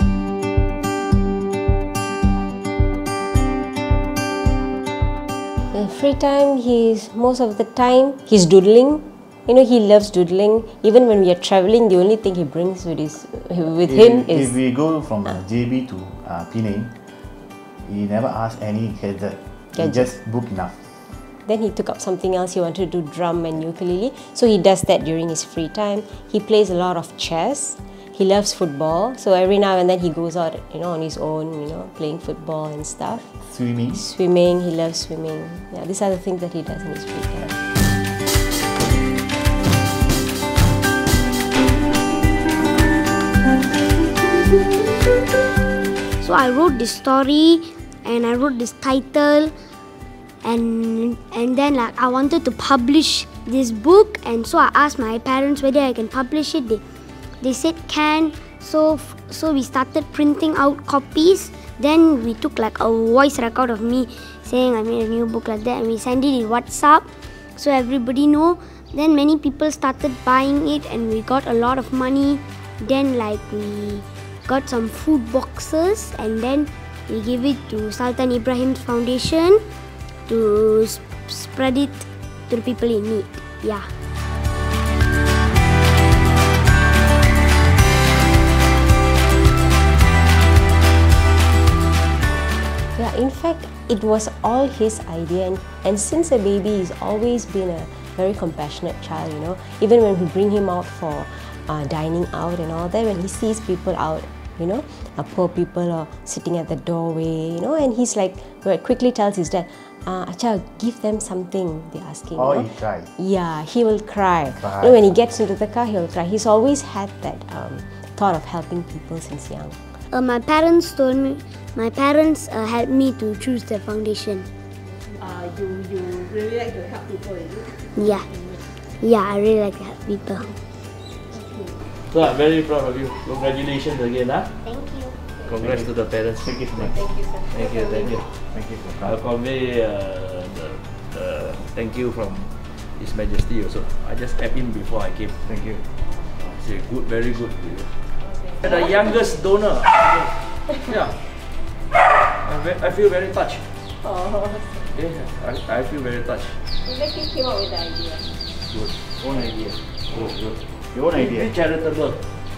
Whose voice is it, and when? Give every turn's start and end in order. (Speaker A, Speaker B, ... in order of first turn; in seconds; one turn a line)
Speaker A: 5.7-14.6
Speaker B: 13.8-16.9
Speaker B: 17.8-20.9
Speaker A: 19.8-20.1
Speaker A: 21.4-33.4
Speaker B: 33.4-34.0
Speaker A: 33.9-37.6
Speaker C: 46.2-49.5
Speaker C: 50.4-56.8
Speaker C: 57.4-79.6
Speaker C: 80.3-83.9
Speaker A: 93.0-119.8
Speaker B: 112.4-113.1
Speaker B: 114.6-115.0
Speaker C: 120.1-124.5
Speaker D: 125.2-128.6
Speaker C: 128.0-128.3
Speaker C: 129.0-130.5
Speaker D: 131.3-131.8
Speaker E: 132.1-134.5
Speaker C: 134.7-135.1
Speaker E: 135.4-138.3
Speaker B: 135.6-135.9
Speaker B: 136.4-137.1
Speaker D: 136.9-138.2
Speaker B: 138.5-139.2
Speaker E: 139.0-145.4
Speaker B: 145.4-145.8
Speaker E: 146.4-148.0
Speaker D: 148.2-149.2
Speaker E: 148.6-151.2
Speaker D: 150.7-150.9
Speaker E: 152.4-153.7
Speaker D: 154.0-154.9
Speaker E: 154.9-156.6
Speaker D: 156.8-158.2
Speaker E: 158.7-160.6
Speaker B: 160.2-161.5
Speaker E: 161.1-162.3